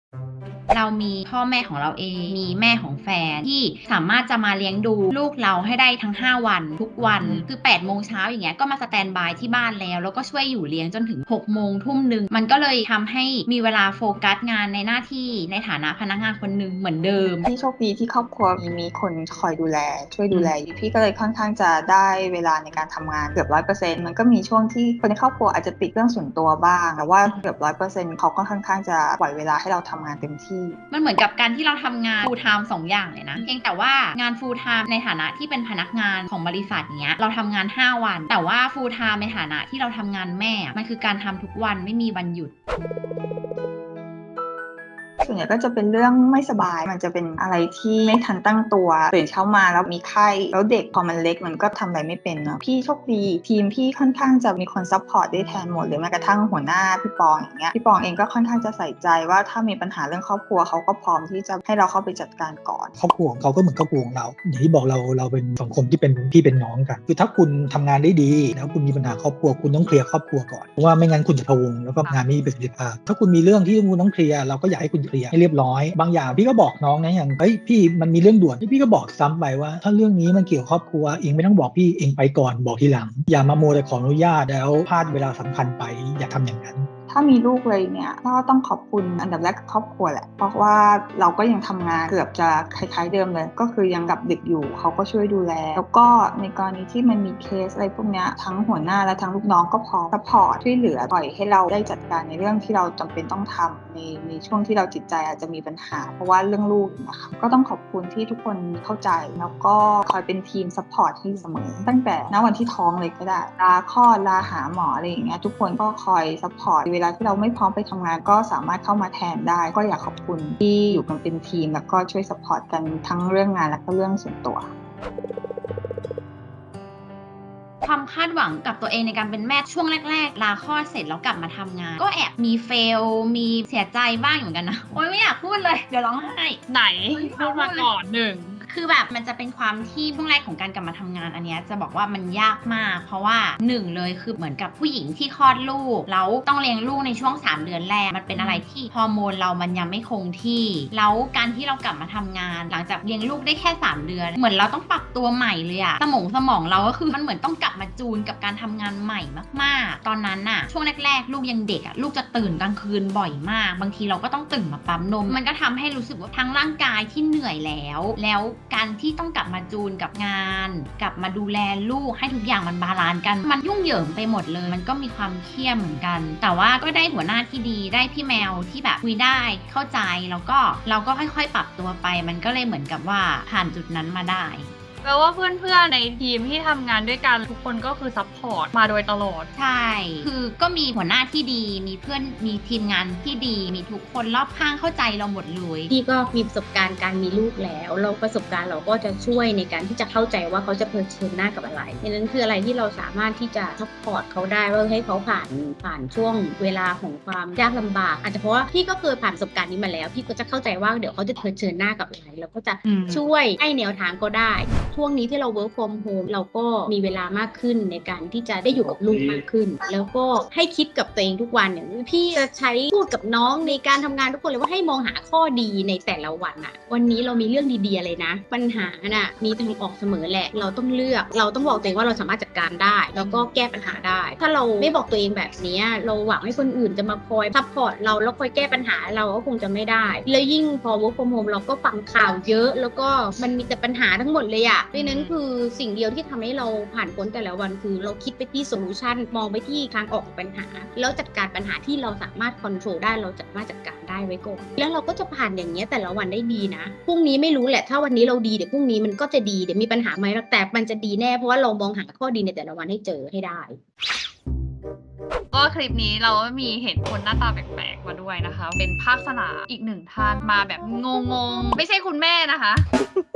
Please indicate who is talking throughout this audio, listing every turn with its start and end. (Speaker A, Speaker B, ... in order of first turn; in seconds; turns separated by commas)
Speaker A: 0.7-17.5, Speaker B: 17.4-30.8, Speaker A: 30.9-42.5, Speaker B: 45.2-63.0, Speaker C: 63.0-86.9, Speaker D: 72.0-72.4, Speaker B: 87.1-124.7, Speaker A: 127.8-136.6, Speaker D: 136.7-138.6, Speaker A: 137.2-137.9, Speaker A: 138.7-184.7, Speaker D: 148.4-148.6, Speaker D: 185.0-189.5, Speaker A: 189.6-195.9, Speaker E: 195.9-263.8, Speaker D: 212.9-213.2, Speaker D: 233.2-233.4, Speaker D: 244.9-245.4, Speaker D: 265.5-272.9